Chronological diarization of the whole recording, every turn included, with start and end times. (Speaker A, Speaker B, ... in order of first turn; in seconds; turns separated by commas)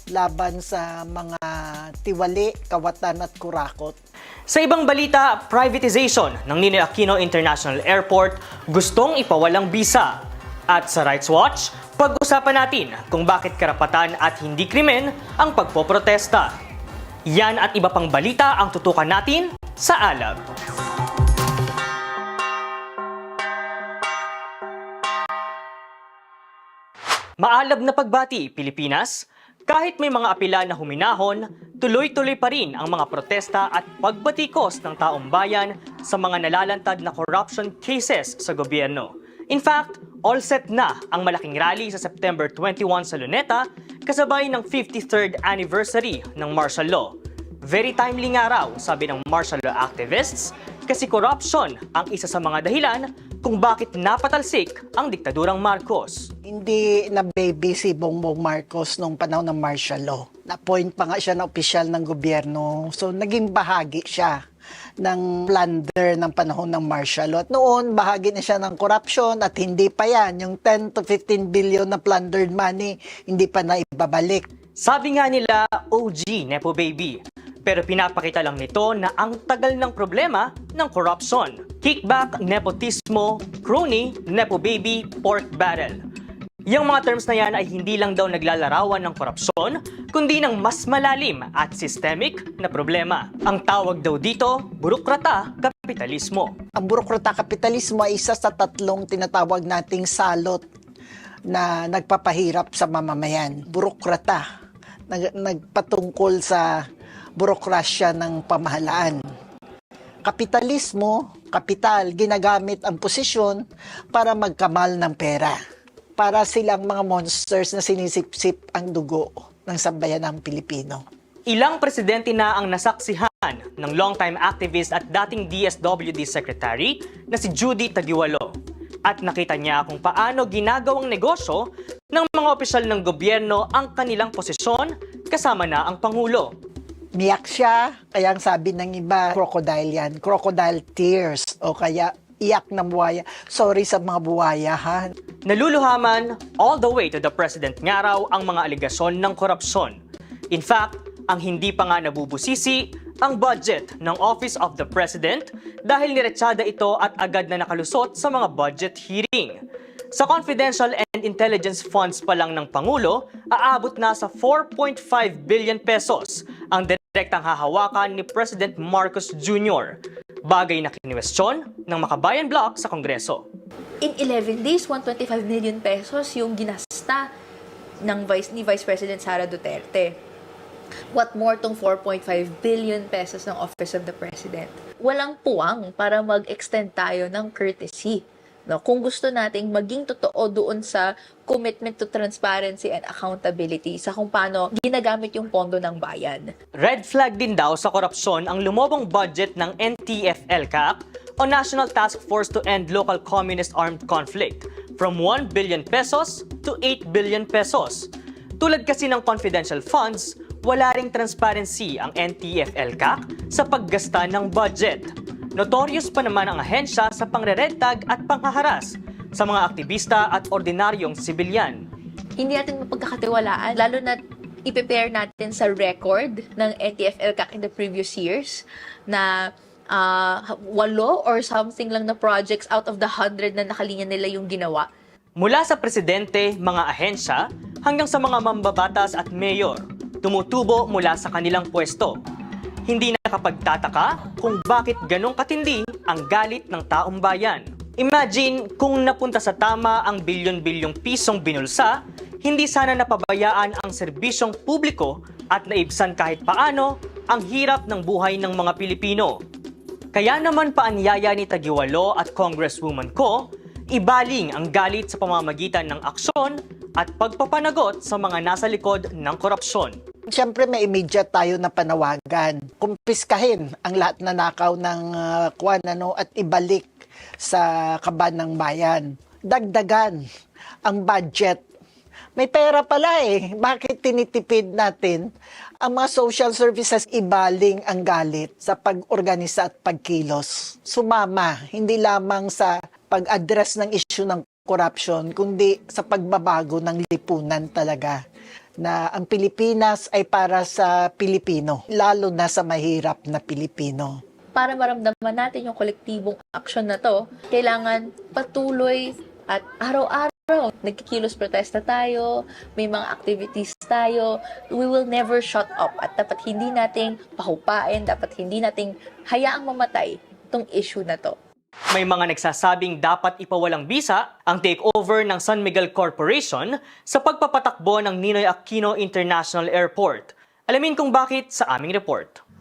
Speaker A: 0.1-3.9, Speaker B: 4.5-10.1, Speaker B: 10.7-16.5, Speaker B: 17.3-20.4, Speaker B: 27.4-47.1, Speaker B: 47.7-56.3, Speaker A: 56.5-64.3, Speaker A: 65.0-74.5, Speaker B: 74.8-86.0, Speaker B: 86.7-96.5, Speaker A: 96.8-100.6, Speaker A: 101.5-104.4, Speaker A: 105.1-106.7, Speaker A: 107.4-109.2, Speaker A: 110.2-115.6, Speaker A: 116.2-121.0, Speaker B: 121.5-128.5, Speaker B: 129.1-136.5, Speaker A: 137.1-145.1, Speaker B: 145.5-149.9, Speaker B: 150.5-159.6, Speaker B: 160.2-173.4, Speaker C: 174.0-177.2, Speaker C: 178.0-180.2, Speaker C: 181.1-196.5, Speaker B: 196.8-208.1, Speaker B: 208.6-221.8, Speaker C: 222.4-229.3, Speaker C: 229.9-234.9, Speaker B: 235.4-242.2, Speaker B: 242.9-259.4, Speaker B: 260.1-263.4, Speaker B: 263.9-269.9, Speaker A: 270.3-276.9, Speaker A: 277.4-280.2, Speaker A: 280.8-281.6, Speaker A: 282.4-285.3, Speaker A: 285.8-298.2, Speaker A: 298.8-304.1, Speaker C: 304.5-321.3, Speaker B: 321.9-332.4